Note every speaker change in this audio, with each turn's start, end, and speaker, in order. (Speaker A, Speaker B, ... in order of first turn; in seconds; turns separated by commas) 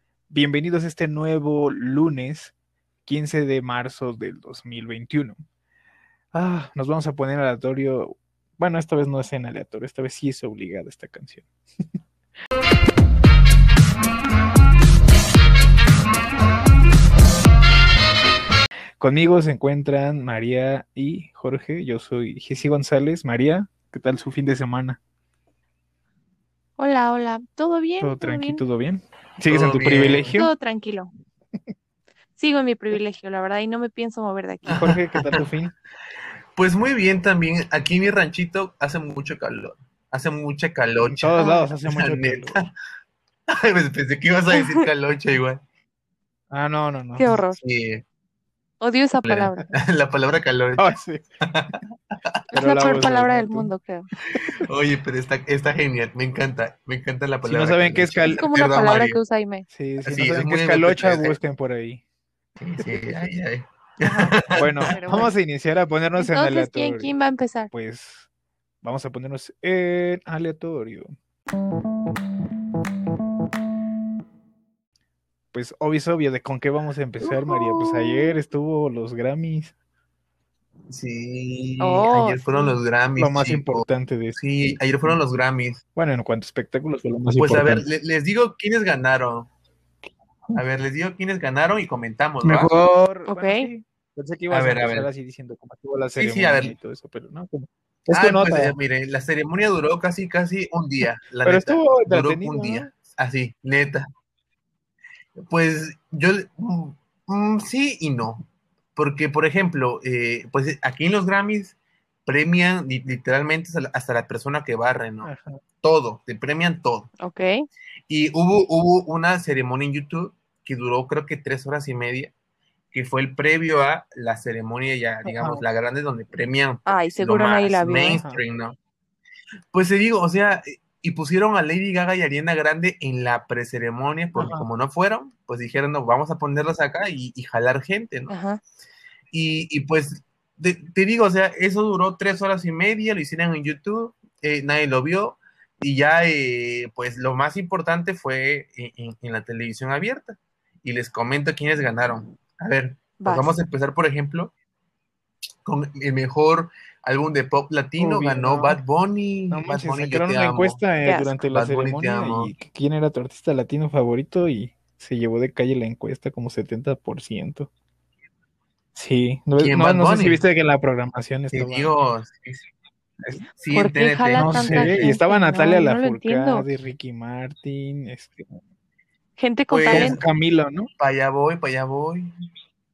Speaker A: 0.3-2.5, Speaker A: 3.1-5.4, Speaker A: 6.3-11.5, Speaker A: 19.0-25.0, Speaker B: 26.8-28.6, Speaker A: 28.0-30.5, Speaker C: 29.5-30.4, Speaker B: 30.4-31.1, Speaker B: 32.4-34.7, Speaker C: 34.6-35.5, Speaker A: 34.7-35.7, Speaker C: 36.6-42.7, Speaker A: 41.0-42.6, Speaker B: 41.4-41.7, Speaker C: 43.5-45.6, Speaker B: 44.5-44.9, Speaker A: 46.5-47.4, Speaker B: 47.2-47.6, Speaker C: 47.3-48.0, Speaker B: 48.8-49.7, Speaker C: 49.2-52.4, Speaker A: 50.8-51.2, Speaker A: 52.5-53.7, Speaker B: 52.5-54.1, Speaker A: 54.3-54.6, Speaker C: 54.4-59.2, Speaker A: 57.4-58.4, Speaker B: 58.3-59.7, Speaker A: 59.7-62.0, Speaker C: 60.0-61.4, Speaker C: 62.6-65.3, Speaker B: 64.0-65.3, Speaker A: 64.6-67.1, Speaker B: 66.2-67.7, Speaker A: 67.7-68.3, Speaker A: 68.8-71.1, Speaker A: 75.5-79.7, Speaker C: 77.6-78.2, Speaker C: 80.9-85.8, Speaker B: 81.8-82.8, Speaker A: 83.2-84.4, Speaker A: 86.0-87.8, Speaker C: 87.4-89.5, Speaker C: 90.6-92.7, Speaker A: 92.4-98.8, Speaker B: 93.3-93.7, Speaker C: 94.5-95.1, Speaker C: 96.2-96.8, Speaker C: 98.1-104.1, Speaker A: 101.4-102.9, Speaker C: 105.4-117.1, Speaker A: 115.2-115.6, Speaker B: 117.2-117.7, Speaker C: 118.1-122.3, Speaker C: 122.9-128.8, Speaker A: 125.2-125.6, Speaker B: 126.9-128.2, Speaker A: 128.1-128.4, Speaker C: 129.7-138.3, Speaker A: 134.4-134.7, Speaker B: 138.3-138.6, Speaker C: 139.3-154.5, Speaker B: 153.2-153.5, Speaker C: 155.6-160.8, Speaker A: 158.0-158.8, Speaker A: 159.5-167.7, Speaker B: 161.0-161.4, Speaker C: 161.5-162.5, Speaker A: 168.9-171.9, Speaker C: 169.6-170.4, Speaker C: 171.5-172.7, Speaker C: 173.5-175.2, Speaker B: 173.7-176.7, Speaker A: 174.4-178.6, Speaker B: 179.4-180.2, Speaker C: 179.7-180.2, Speaker A: 179.9-180.9, Speaker C: 181.0-182.3